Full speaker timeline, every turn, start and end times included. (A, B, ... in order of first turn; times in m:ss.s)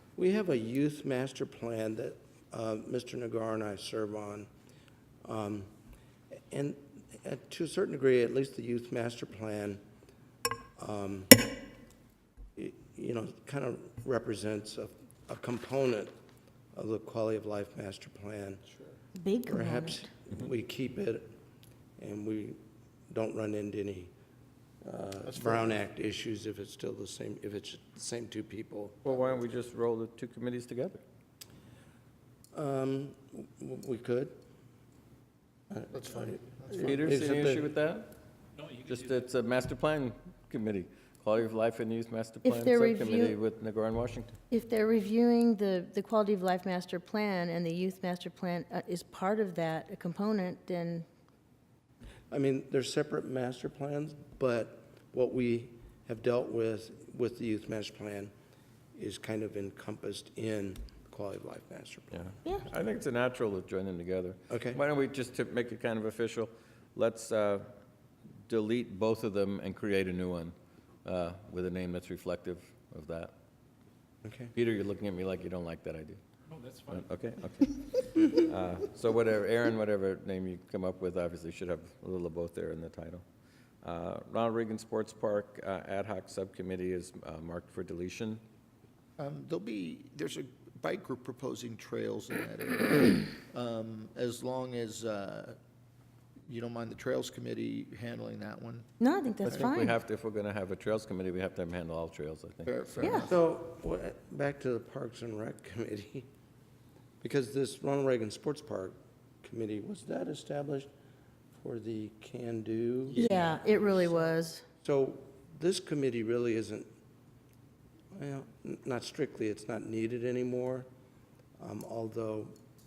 0:00.2-0:04.5 A
0:05.2-0:05.7 A
0:06.5-0:09.8 A
0:10.8-0:11.5 A
0:12.6-0:16.1 A
0:16.7-0:18.6 A
0:19.2-0:20.1 B
0:19.5-0:21.3 A
0:22.0-0:22.6 A
0:23.1-0:24.1 A
0:24.8-0:29.0 A
0:25.3-0:25.7 C
0:29.0-0:31.0 D
0:32.5-0:34.4 A
0:35.7-0:37.7 A
0:35.9-0:37.0 C
0:36.7-0:38.1 D
0:38.7-0:44.3 D
0:42.4-0:43.4 B
0:44.5-0:51.0 B
0:52.3-0:58.3 A
0:58.9-1:02.2 A
1:02.1-1:07.7 D
1:04.5-1:04.8 A
1:08.5-1:13.3 D
1:14.2-1:14.5 A
1:14.5-1:16.2 D
1:16.8-1:23.2 D
1:23.8-1:28.4 D
1:29.2-1:35.6 C
1:36.5-1:38.8 C
1:39.0-1:40.0 B
1:39.4-1:42.7 D
1:39.5-1:39.7 C
1:42.6-1:43.4 C
1:43.0-1:43.3 B
1:43.3-1:46.3 A
1:47.2-1:50.9 A
1:51.6-1:53.3 A
1:53.1-1:54.0 C
1:53.1-1:54.6 B
1:54.8-1:56.9 A
1:58.1-2:00.9 A
2:01.6-2:02.5 A